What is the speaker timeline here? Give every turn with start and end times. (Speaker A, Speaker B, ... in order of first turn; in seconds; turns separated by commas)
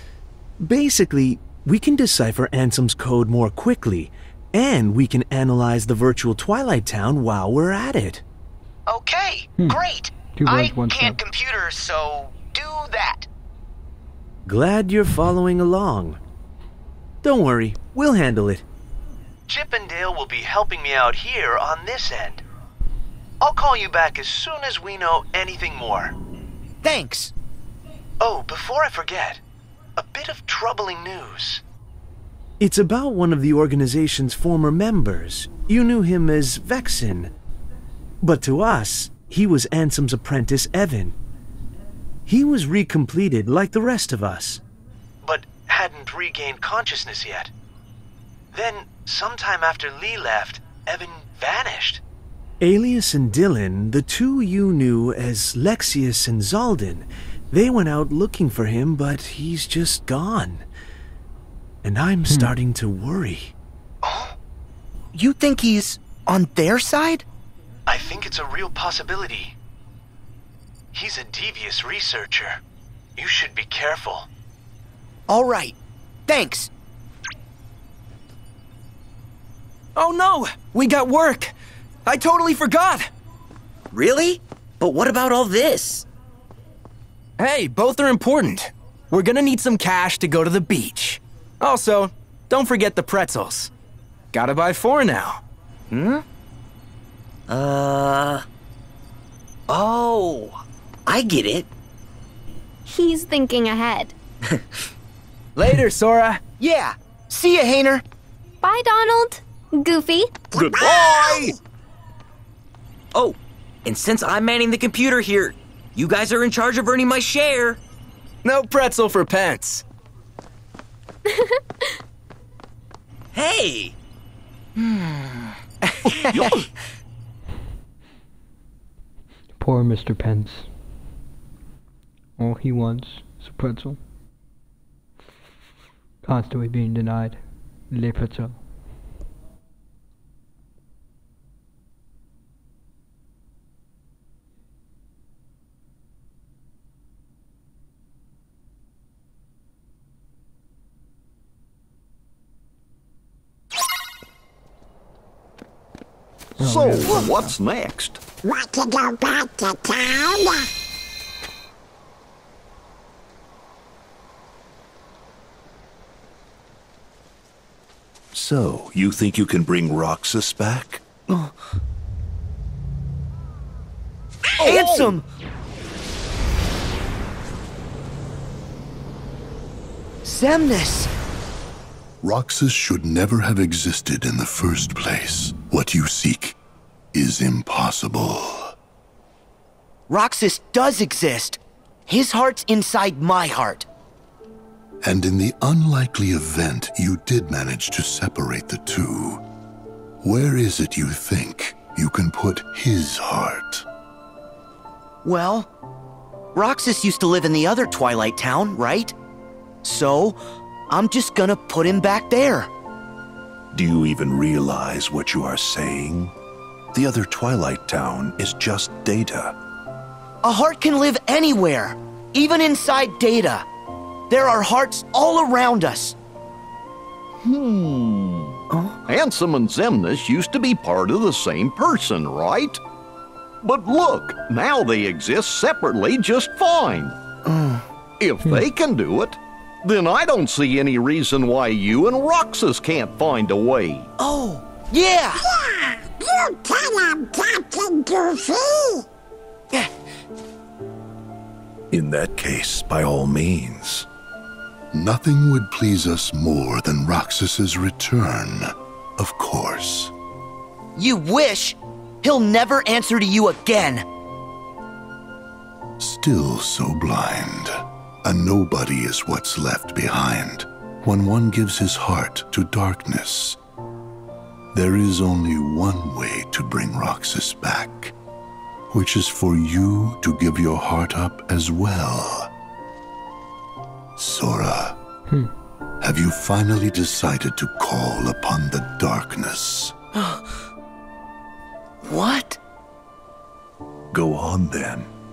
Speaker A: 0.6-8.2, Speaker B: 8.9-13.3, Speaker C: 10.3-11.2, Speaker A: 14.5-16.2, Speaker A: 17.2-18.6, Speaker D: 19.5-22.4, Speaker D: 23.4-26.1, Speaker B: 26.8-27.3, Speaker D: 28.2-29.4, Speaker D: 30.0-31.6, Speaker A: 32.6-37.3, Speaker A: 38.2-41.2, Speaker A: 42.3-44.6, Speaker D: 45.2-47.5, Speaker D: 48.5-52.0, Speaker A: 52.6-60.7, Speaker A: 61.8-63.5, Speaker C: 62.3-62.5, Speaker D: 64.0-64.3, Speaker B: 65.1-67.2, Speaker D: 67.9-69.5, Speaker D: 70.9-72.6, Speaker D: 73.2-74.3, Speaker B: 75.3-75.8, Speaker B: 76.3-76.7, Speaker E: 80.0-81.5, Speaker E: 82.1-83.1, Speaker F: 83.9-86.1, Speaker E: 87.4-93.7, Speaker E: 94.3-95.4, Speaker F: 95.9-96.2, Speaker F: 97.5-98.5, Speaker F: 99.7-101.7, Speaker G: 102.9-104.1, Speaker E: 105.6-106.4, Speaker B: 106.6-108.0, Speaker G: 108.6-110.4, Speaker H: 110.5-111.5, Speaker I: 110.5-111.5, Speaker F: 113.1-117.8, Speaker E: 118.4-119.8, Speaker G: 121.3-121.6, Speaker F: 123.3-124.0, Speaker F: 124.8-126.5, Speaker I: 126.2-126.7, Speaker C: 129.6-130.7, Speaker C: 132.4-134.0, Speaker C: 136.2-137.4, Speaker C: 137.9-138.6, Speaker C: 156.6-157.6, Speaker I: 156.6-158.2, Speaker H: 158.4-160.7, Speaker J: 168.3-171.0, Speaker B: 171.3-171.5, Speaker I: 174.6-175.2, Speaker B: 174.6-175.2, Speaker B: 180.2-181.1, Speaker J: 182.2-186.6, Speaker J: 187.1-188.7, Speaker B: 190.1-193.9, Speaker J: 195.0-199.4, Speaker J: 200.2-203.8, Speaker B: 205.2-205.7, Speaker B: 206.5-209.2, Speaker B: 209.8-210.4, Speaker B: 210.9-212.7, Speaker J: 213.7-216.3, Speaker J: 216.9-219.5, Speaker B: 220.4-223.7, Speaker B: 224.3-226.2, Speaker I: 227.4-232.8, Speaker B: 228.7-229.0, Speaker I: 233.6-237.2, Speaker B: 237.4-237.8, Speaker I: 238.2-244.1, Speaker B: 244.2-245.4, Speaker H: 245.4-249.1, Speaker J: 251.9-254.1, Speaker J: 254.9-260.1, Speaker B: 261.0-264.1, Speaker J: 266.0-273.6, Speaker J: 274.7-278.1, Speaker J: 278.9-282.5, Speaker J: 284.2-285.0, Speaker J: 286.0-289.9, Speaker B: 292.1-292.6, Speaker J: 294.1-295.1